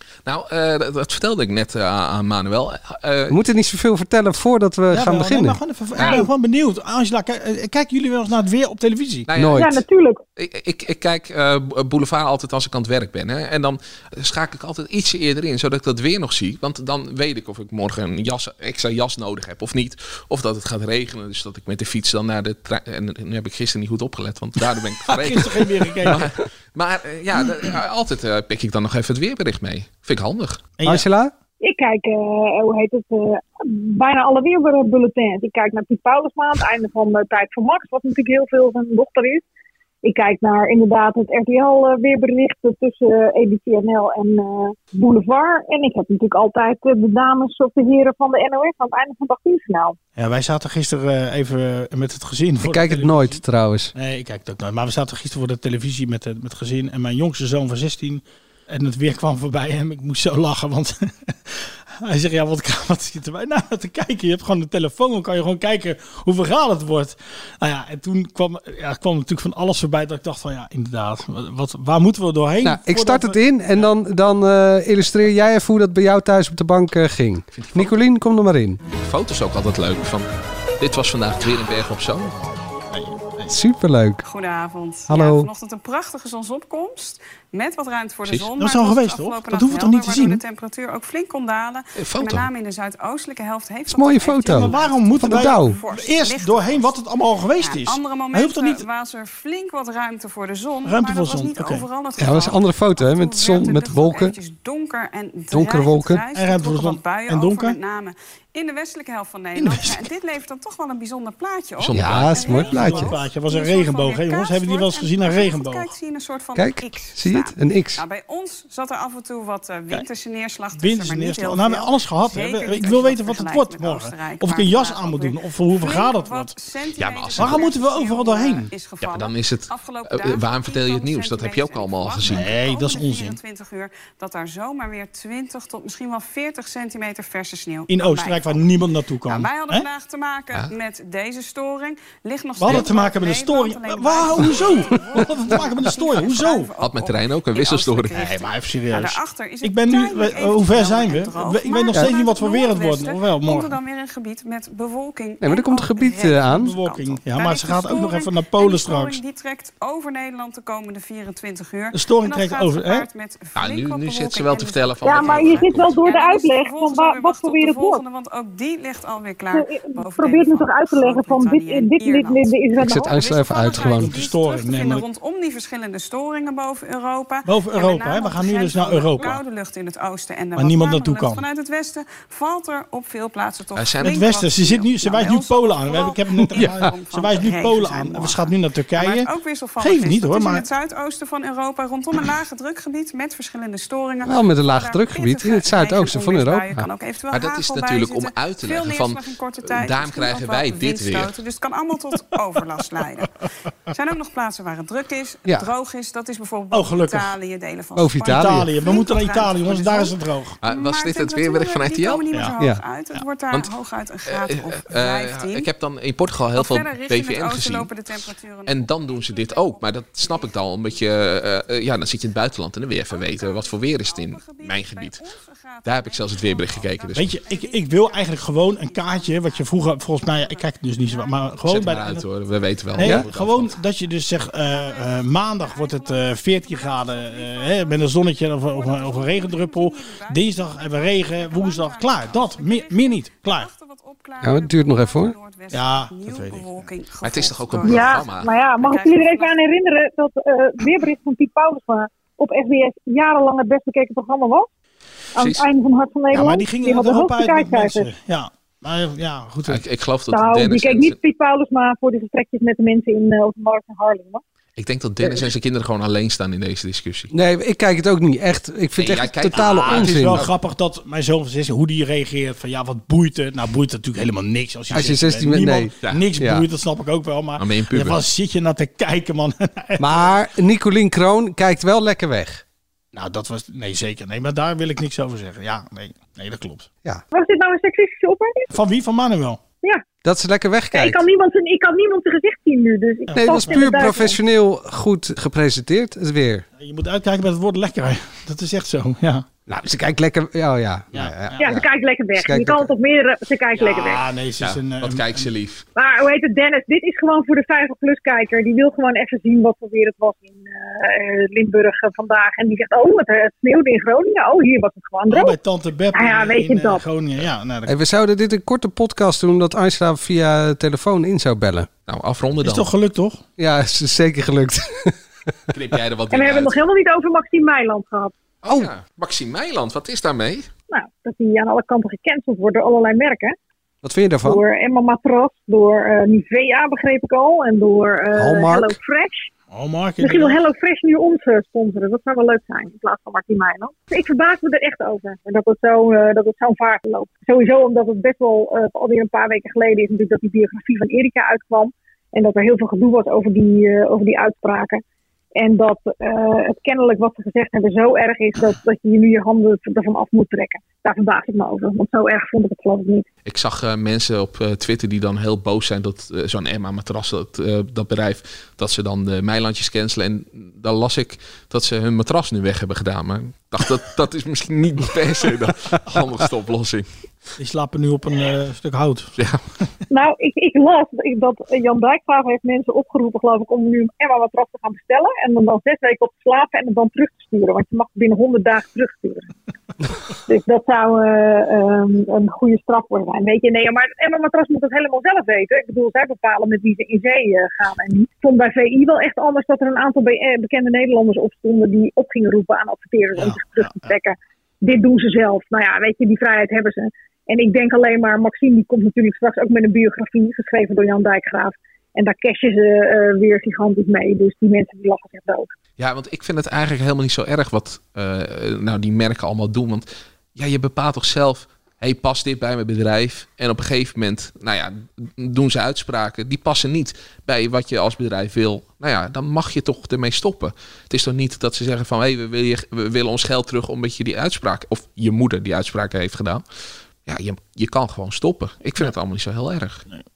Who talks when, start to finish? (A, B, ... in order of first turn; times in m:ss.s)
0:00.2-0:03.4 A
0:03.3-0:05.6 B
0:04.9-0:09.3 C
0:06.0-0:06.2 A
0:09.3-0:09.7 A
0:09.3-0:09.8 B
0:09.5-0:10.2 D
0:10.4-0:30.6 A
0:25.1-0:26.3 C
0:30.8-0:31.0 C
0:30.8-0:31.3 B
0:31.6-0:39.4 D
0:40.0-0:50.0 D
0:50.2-0:53.4 C
0:52.6-0:53.9 B
0:53.9-1:13.9 C
1:12.6-1:18.8 B
1:17.5-1:17.9 A
1:19.0-1:20.3 A
1:20.8-1:22.3 A
1:22.4-1:23.5 C
1:23.5-1:24.2 B
1:24.2-1:37.0 E
1:25.1-1:25.5 B
1:28.6-1:30.4 C
1:32.0-1:32.5 A
1:33.9-1:35.8 B
1:34.5-1:38.8 C
1:37.6-3:23.3 E
1:40.8-1:41.9 C
1:42.2-1:44.4 B
1:45.5-1:46.2 B
1:46.3-1:47.8 C
1:49.6-1:50.0 C
1:51.8-1:52.6 A
1:51.9-1:53.1 B
1:52.4-1:55.9 C
1:56.6-1:58.0 B
2:00.8-2:06.5 C
2:07.0-2:07.7 A
2:07.4-2:08.7 C
2:09.0-2:12.5 A
2:12.2-2:13.4 C
2:17.9-2:19.9 C
2:22.6-2:26.7 C
2:26.8-2:28.2 A
2:28.1-2:33.8 C
2:35.4-2:36.7 B
2:36.5-2:39.2 C
2:41.9-2:43.1 C
2:43.6-2:46.0 A
2:45.0-2:48.0 D
2:49.5-2:53.1 D
2:52.8-2:54.1 B
2:53.9-2:55.0 C
2:57.5-2:59.4 C
3:00.6-3:01.4 C
3:03.7-3:04.2 A
3:04.0-3:09.3 C
3:06.6-3:06.9 B
3:09.8-3:10.7 C
3:14.2-3:16.9 B
3:17.3-3:21.4 A
3:23.9-3:35.7 E
3:26.7-3:27.4 C
3:28.0-3:28.7 B
3:28.3-3:30.6 C
3:30.6-3:32.3 A
3:34.3-3:37.9 A
3:36.5-3:41.1 E
3:38.7-3:45.2 A
3:43.1-3:51.9 E
3:45.8-3:47.3 A
3:47.1-3:52.2 C
3:51.6-3:53.8 A
3:53.0-4:03.7 C
3:53.0-3:53.2 B
3:54.6-4:08.3 E
4:04.4-4:05.4 B
4:05.7-4:06.9 C
4:07.2-4:08.6 A
4:07.8-4:14.7 D
4:08.8-4:09.6 E
4:15.3-4:18.1 D
4:15.4-4:15.6 A
4:16.3-4:19.8 C
4:19.7-4:21.2 A
4:20.3-4:24.4 D
4:24.8-4:27.3 A
4:27.3-4:30.5 B
4:29.0-4:30.5 A
4:29.6-4:40.3 C
4:34.9-4:36.6 B
4:37.6-4:38.2 A
4:40.0-4:42.6 B
4:43.1-4:46.9 C
4:47.3-4:48.7 D
4:48.7-4:49.6 C
4:50.2-4:51.2 B
4:50.9-4:54.4 D
4:53.3-4:54.1 C
4:53.3-4:56.6 B
4:56.8-4:59.5 C
4:59.7-5:01.7 B
5:01.1-5:01.7 C
5:01.6-5:04.2 D
5:02.4-5:02.9 B
5:03.7-5:05.5 C
5:04.6-5:05.8 A
5:06.0-5:15.6 D
5:15.3-5:17.9 C
5:16.1-5:17.0 D
5:17.9-5:21.9 B
5:22.1-5:22.9 A
5:22.6-5:23.4 C
5:23.6-5:25.1 B
5:25.7-5:26.8 A
5:26.3-5:28.3 D
5:28.6-5:30.7 A
5:28.6-5:28.9 B
5:30.9-5:33.6 D
5:34.0-5:34.6 B
5:34.4-5:39.5 D
5:38.3-5:39.0 B
5:39.7-5:40.6 C
5:40.2-5:55.0 D
5:55.6-6:03.2 D
6:03.4-6:17.1 A
6:17.6-6:19.3 C
6:20.1-6:29.5 D
6:30.4-6:55.7 D
6:43.3-6:44.1 C
6:56.0-7:16.6 A
7:17.3-7:20.0 A